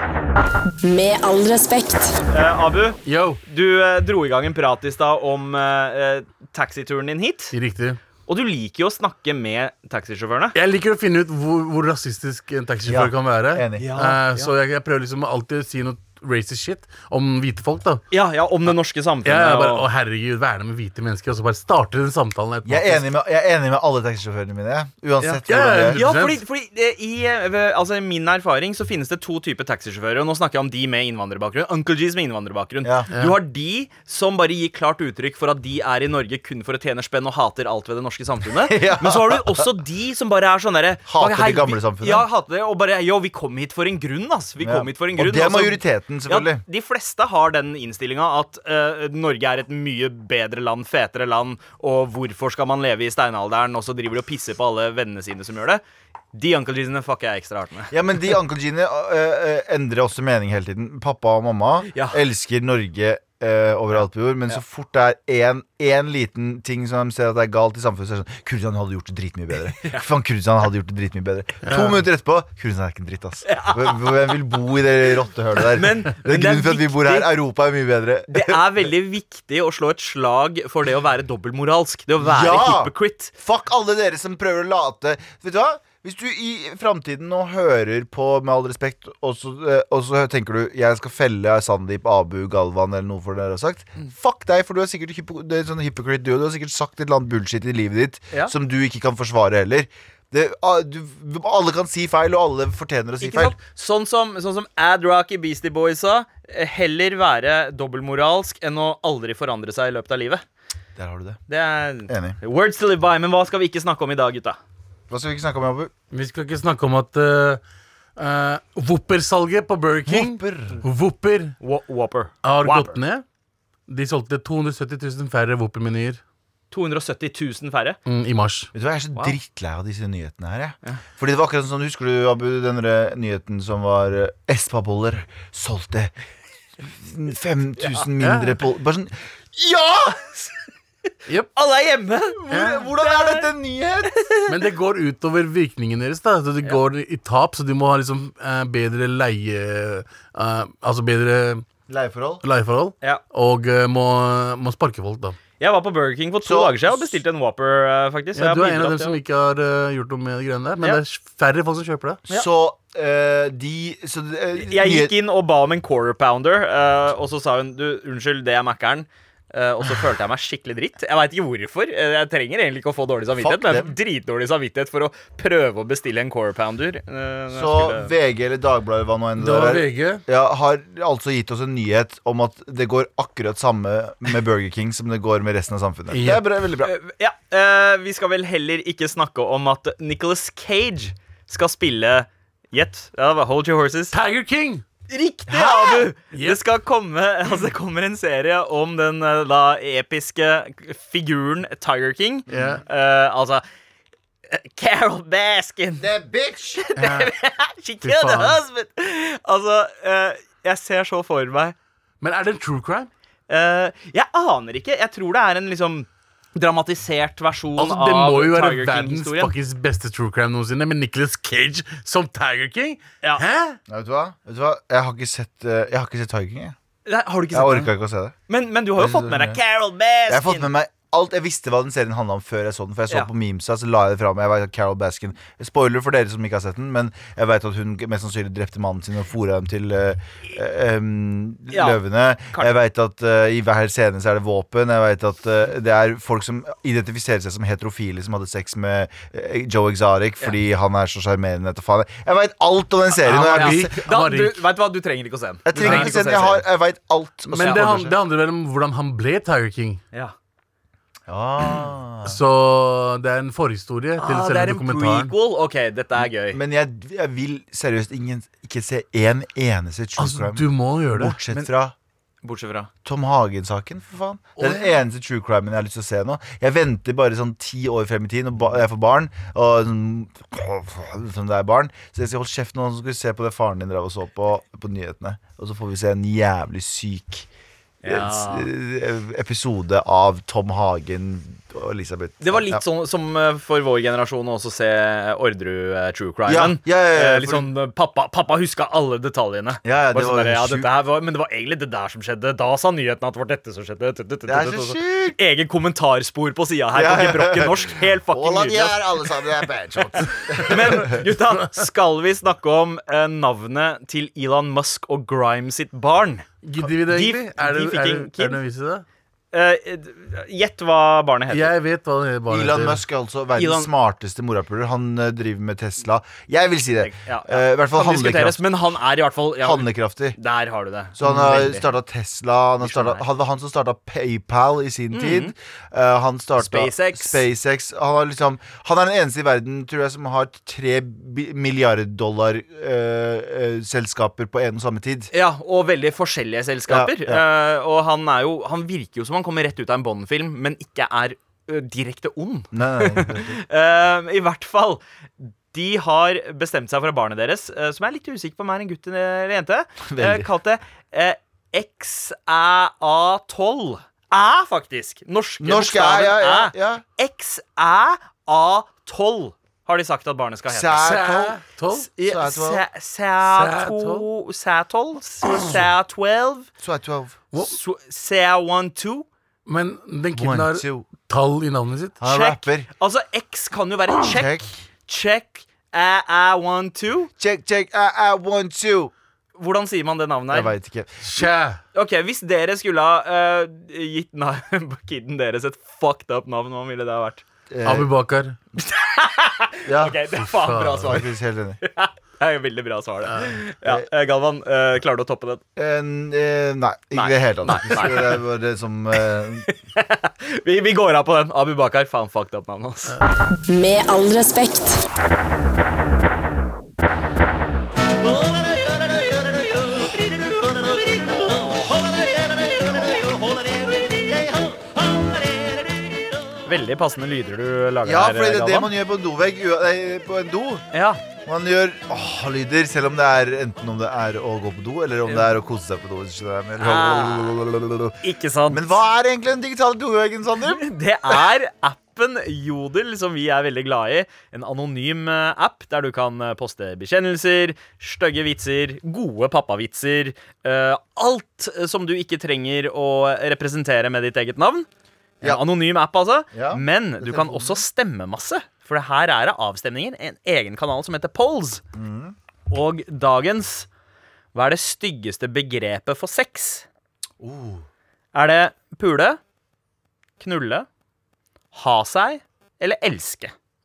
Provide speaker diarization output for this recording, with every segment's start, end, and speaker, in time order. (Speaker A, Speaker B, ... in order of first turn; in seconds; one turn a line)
Speaker A: 0.8-2.2
Speaker B: 2.3-7.5
Speaker C: 3.0-3.4
Speaker C: 7.5-8.0
Speaker B: 8.3-10.6
Speaker C: 10.6-18.0
Speaker D: 12.9-13.9
Speaker B: 13.8-14.5
Speaker B: 18.1-19.9
Speaker C: 19.2-23.0
Speaker D: 22.6-26.0
Speaker C: 25.5-26.4
Speaker B: 25.9-55.8
Speaker D: 32.8-33.1
Speaker D: 38.5-39.7
Speaker D: 41.1-42.2
Speaker D: 44.6-46.6
Speaker B: 56.3-57.9
Speaker D: 57.9-78.6
Speaker B: 61.9-62.2
Speaker B: 69.8-70.1
Speaker C: 71.7-72.0
Speaker B: 73.4-74.5
Speaker B: 75.6-77.3
Speaker B: 78.3-83.3
Speaker D: 82.2-103.6
Speaker B: 103.2-110.4
Speaker D: 111.0-111.4
Speaker B: 111.5-114.6
Speaker D: 112.1-112.4
Speaker D: 115.1-115.9
Speaker C: 116.1-117.6
Speaker C: 118.2-121.6
Speaker D: 120.1-120.8
Speaker B: 121.6-123.0
Speaker C: 122.4-123.2
Speaker C: 123.9-126.2
Speaker B: 126.7-128.0
Speaker C: 128.1-128.7
Speaker D: 128.7-136.1
Speaker D: 136.8-140.5
Speaker C: 138.2-138.6
Speaker B: 141.6-143.5
Speaker D: 142.4-144.2
Speaker C: 142.5-142.8
Speaker B: 144.1-144.5
Speaker C: 144.5-151.6
Speaker D: 151.9-152.4
Speaker C: 152.4-155.4
Speaker B: 155.6-159.2
Speaker D: 156.4-157.2
Speaker C: 158.4-162.2
Speaker D: 162.3-165.1
Speaker B: 164.6-178.1
Speaker D: 173.4-173.9
Speaker D: 177.5-186.9
Speaker C: 179.4-180.2
Speaker C: 186.1-186.5
Speaker B: 186.8-194.2
Speaker C: 194.1-194.8
Speaker B: 195.1-203.6
Speaker D: 195.5-196.1
Speaker C: 196.3-196.6
Speaker D: 202.5-202.8
Speaker C: 202.5-202.8
Speaker B: 204.5-206.1
Speaker D: 206.0-207.0
Speaker B: 206.8-211.8
Speaker C: 207.0-207.3
Speaker C: 208.0-208.6
Speaker C: 212.2-213.1
Speaker B: 213.5-219.5
Speaker C: 217.8-223.8
Speaker D: 223.9-226.8
Speaker B: 227.1-227.9
Speaker D: 227.5-228.3
Speaker B: 228.5-230.7
Speaker D: 229.0-229.6
Speaker D: 230.3-254.0
Speaker B: 241.7-242.7
Speaker C: 253.2-254.6
Speaker B: 253.3-256.6
Speaker D: 255.7-258.2
Speaker C: 255.8-256.1
Speaker C: 257.5-260.0
Speaker D: 261.3-262.4
Speaker C: 262.2-265.3
Speaker B: 264.2-266.6
Speaker D: 266.5-271.9
Speaker C: 270.2-271.4
Speaker B: 272.4-272.9
Speaker D: 273.1-287.5
Speaker C: 274.6-274.9
Speaker B: 288.0-288.7
Speaker D: 288.1-292.8
Speaker B: 292.4-309.5
Speaker D: 296.5-297.7
Speaker D: 299.8-300.9
Speaker D: 304.5-305.4
Speaker D: 306.9-311.2
Speaker B: 310.1-316.5
Speaker C: 316.6-319.1
Speaker B: 317.1-318.6
Speaker B: 319.5-321.7
Speaker C: 321.5-323.0
Speaker D: 322.5-328.6
Speaker B: 323.6-323.9
Speaker B: 327.0-331.9
Speaker D: 329.6-330.4
Speaker D: 331.2-345.3
Speaker B: 332.8-333.2
Speaker B: 335.1-335.5
Speaker B: 336.6-337.4
Speaker B: 345.3-371.1
Speaker D: 346.9-347.4
Speaker D: 352.7-353.6
Speaker D: 360.1-360.5
Speaker D: 365.6-367.0
Speaker D: 370.7-371.6
Speaker C: 371.0-372.1
Speaker B: 372.0-376.7
Speaker D: 372.2-372.8
Speaker C: 373.4-374.3
Speaker D: 376.8-377.4
Speaker B: 377.5-379.3
Speaker C: 379.7-382.2
Speaker D: 380.4-381.1
Speaker D: 382.2-382.9
Speaker B: 382.2-387.3
Speaker D: 384.2-384.8
Speaker D: 387.4-389.1
Speaker B: 389.6-390.7
Speaker D: 390.5-391.5
Speaker C: 391.2-391.8
Speaker B: 391.9-397.4
Speaker D: 397.7-398.1
Speaker C: 397.9-398.6
Speaker B: 398.8-401.3
Speaker D: 399.9-400.2
Speaker C: 400.3-401.1
Speaker D: 401.0-401.8
Speaker B: 401.8-405.6
Speaker D: 405.8-409.7
Speaker B: 407.1-408.4
Speaker B: 409.6-413.2
Speaker A: 413.7-415.0
Speaker B: 419.9-423.4
Speaker B: 426.6-428.9
Speaker D: 428.0-430.8
Speaker B: 430.9-431.2
Speaker D: 431.5-440.8
Speaker B: 435.3-435.6
Speaker B: 436.8-437.6
Speaker B: 438.2-438.9
Speaker B: 440.6-454.9
Speaker B: 455.4-461.8
Speaker D: 456.5-457.8
Speaker D: 461.9-462.4
Speaker B: 462.7-463.9
Speaker B: 464.5-466.9
Speaker D: 467.4-467.9
Speaker B: 468.3-469.4
Speaker B: 470.4-470.9
Speaker B: 471.7-473.5